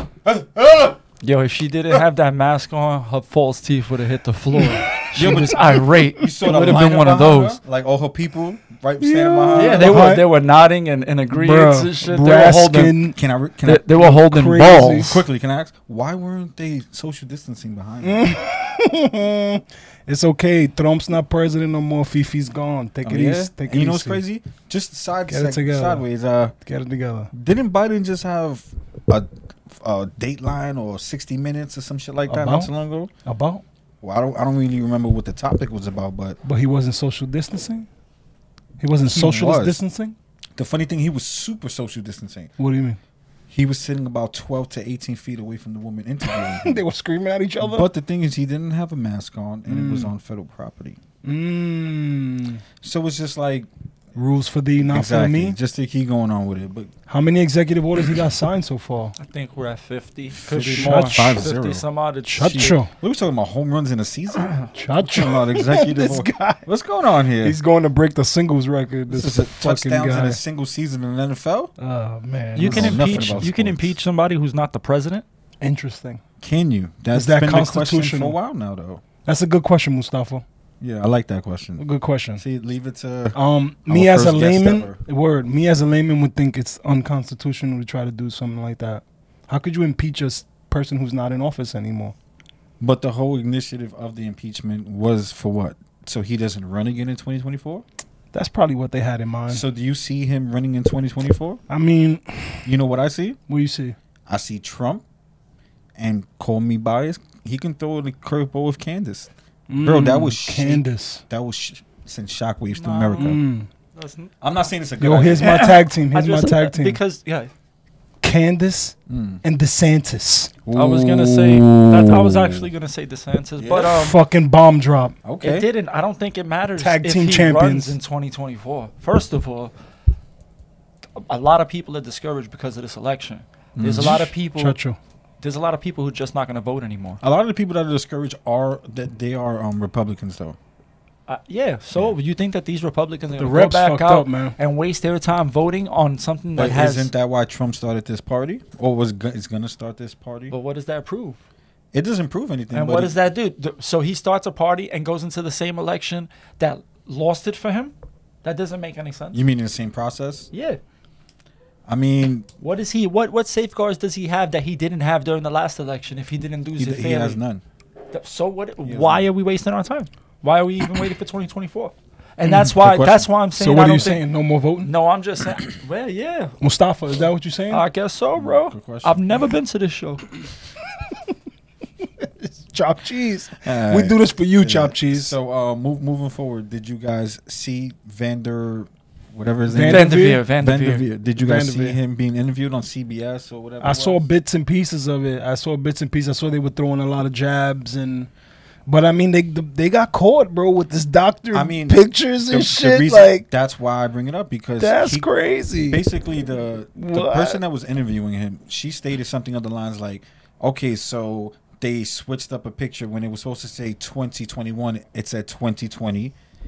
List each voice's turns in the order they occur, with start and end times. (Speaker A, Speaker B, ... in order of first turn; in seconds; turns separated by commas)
Speaker A: 0.2-1.0, Speaker B: 1.2-7.6, Speaker C: 4.6-5.6, Speaker A: 5.1-10.1, Speaker C: 9.0-10.3, Speaker B: 9.5-13.1, Speaker C: 11.3-13.2, Speaker A: 13.1-13.9, Speaker B: 13.6-15.2, Speaker C: 13.9-15.2, Speaker A: 14.9-18.2, Speaker C: 18.0-24.2, Speaker A: 23.0-26.5, Speaker C: 25.3-26.1, Speaker C: 26.6-27.3, Speaker A: 27.3-33.1, Speaker C: 32.3-32.7, Speaker C: 33.2-33.6, Speaker A: 34.0-36.4, Speaker C: 36.4-37.9, Speaker C: 38.8-40.1, Speaker A: 39.0-39.8, Speaker A: 40.5-42.5, Speaker C: 42.6-43.0, Speaker A: 43.5-46.8, Speaker C: 46.3-47.9, Speaker A: 47.6-51.0, Speaker C: 49.7-50.1, Speaker C: 51.2-52.6, Speaker A: 52.8-53.7, Speaker C: 54.1-55.6, Speaker A: 54.8-56.9, Speaker C: 57.1-59.1, Speaker B: 59.2-62.8, Speaker A: 60.4-64.5, Speaker C: 60.6-61.4, Speaker C: 62.3-62.9, Speaker B: 64.3-64.7, Speaker C: 64.7-66.6, Speaker A: 65.0-67.6, Speaker C: 67.4-70.4, Speaker A: 69.1-71.7, Speaker C: 71.8-73.5, Speaker B: 72.5-75.2, Speaker A: 72.6-73.9, Speaker C: 75.6-76.2, Speaker A: 76.4-79.0, Speaker C: 77.1-78.3, Speaker C: 79.2-80.4, Speaker A: 80.8-81.8, Speaker C: 81.8-82.4, Speaker A: 82.4-85.0, Speaker C: 83.3-92.1, Speaker A: 92.8-97.8, Speaker C: 98.3-99.6, Speaker A: 99.5-101.6, Speaker C: 101.7-102.7, Speaker A: 102.6-103.4, Speaker C: 103.5-104.0, Speaker A: 104.3-105.0, Speaker A: 106.0-113.4, Speaker C: 109.7-111.2, Speaker B: 112.7-113.4, Speaker C: 113.2-113.7, Speaker B: 113.9-114.3, Speaker A: 114.4-115.5, Speaker C: 115.0-117.0, Speaker B: 115.4-117.5, Speaker C: 118.2-120.5, Speaker A: 119.1-119.4, Speaker A: 120.7-122.7, Speaker B: 120.7-124.2, Speaker A: 123.6-123.9, Speaker C: 123.8-125.2, Speaker A: 125.2-125.7, Speaker B: 125.4-129.7, Speaker C: 126.8-128.0, Speaker B: 131.2-134.8, Speaker A: 133.8-134.2, Speaker C: 133.9-135.0, Speaker B: 135.4-137.2, Speaker A: 137.2-140.6, Speaker B: 141.3-147.1, Speaker C: 143.4-144.6, Speaker A: 146.6-150.5, Speaker B: 150.5-151.4, Speaker A: 151.9-153.1, Speaker B: 152.7-159.4, Speaker A: 159.3-160.5, Speaker B: 160.5-160.8, Speaker A: 161.9-162.5, Speaker B: 162.6-167.4, Speaker A: 166.8-167.6, Speaker B: 168.1-174.2, Speaker A: 168.8-169.3, Speaker A: 172.4-173.3, Speaker C: 173.6-174.9, Speaker B: 174.8-176.6, Speaker C: 176.6-177.8, Speaker B: 177.7-180.3, Speaker A: 178.3-179.2, Speaker C: 182.2-185.3, Speaker A: 183.6-194.2, Speaker C: 189.7-190.4, Speaker B: 189.8-191.1, Speaker C: 191.4-192.0, Speaker C: 193.8-198.3, Speaker C: 198.8-203.4, Speaker A: 201.5-205.3, Speaker C: 204.8-206.0, Speaker A: 205.9-216.3, Speaker C: 206.9-207.6